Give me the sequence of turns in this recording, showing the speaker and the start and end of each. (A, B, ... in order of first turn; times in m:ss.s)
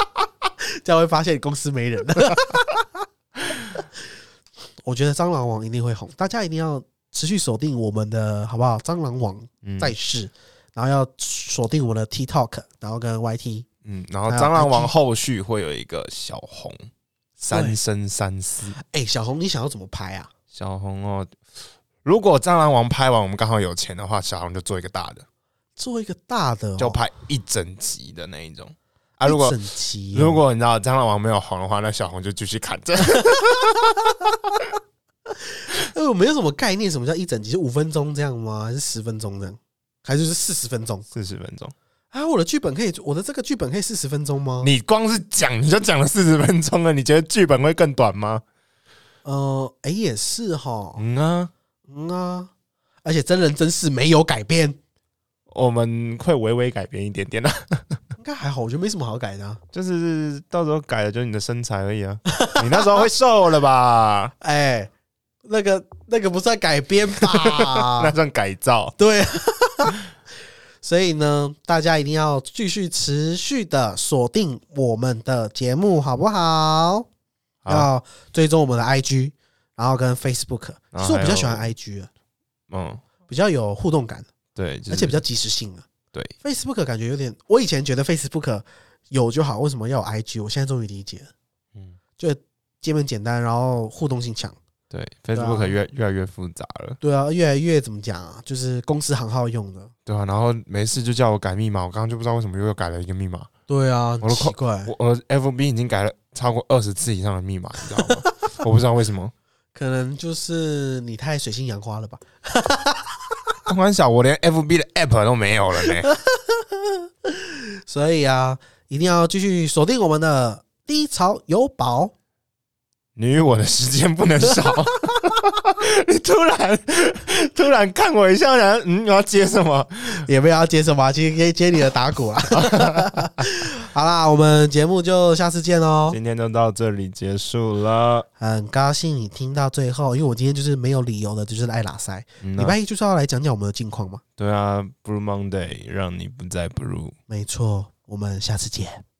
0:00.8-0:03.0 A
0:04.8-0:13.7 A
0:09.6-0:10.0 B
0:13.8-0:16.9 B
0:14.3-0:14.9 A
0:17.4-0:18.8 B
0:17.5-0:17.8 A
0:18.8-0:20.3 A
0:20.5-0:21.3 B
0:22.0-0:25.3 B
0:25.8-0:27.0 A
0:26.8-0:29.6 B
0:29.2-0:30.4 A
0:30.1-0:33.7 B
0:35.5-0:41.1 A
0:41.1-0:41.7 B
0:42.1-0:44.7 A
0:44.6-0:48.4 B
0:49.2-0:51.0 A
0:51.0-0:51.5 B
0:51.9-0:52.5 A
0:53.0-0:54.8 A
0:55.5-0:58.0 B
0:58.2-0:59.6 A
0:59.7-1:04.3 B
1:02.3-1:03.0 A
1:04.4-1:04.9 A
1:05.4-1:08.1 A
1:07.2-1:09.0 B
1:09.0-1:10.0 A
1:10.8-1:17.1 A
1:17.7-1:22.1 A
1:20.9-1:21.6 B
1:22.7-1:23.0 B
1:23.3-1:24.3 A
1:24.6-1:25.2 B
1:24.9-1:25.9 A
1:26.4-1:31.3 A
1:32.2-1:34.6 A
1:34.9-1:37.0 B
1:35.4-1:35.8 A
1:37.0-1:39.9 A
1:40.1-1:43.5 B
1:43.7-1:44.9 A
1:44.2-1:49.3 B
1:49.8-1:53.5 A
1:53.7-1:56.1 B
1:56.1-2:02.1 A
2:03.2-2:10.3 B
2:10.2-2:16.2 A
2:12.7-2:13.1 B
2:16.1-2:18.3 B
2:18.4-2:24.2 A
2:22.4-2:22.8 B
2:24.4-2:27.2 B
2:27.3-2:29.0 A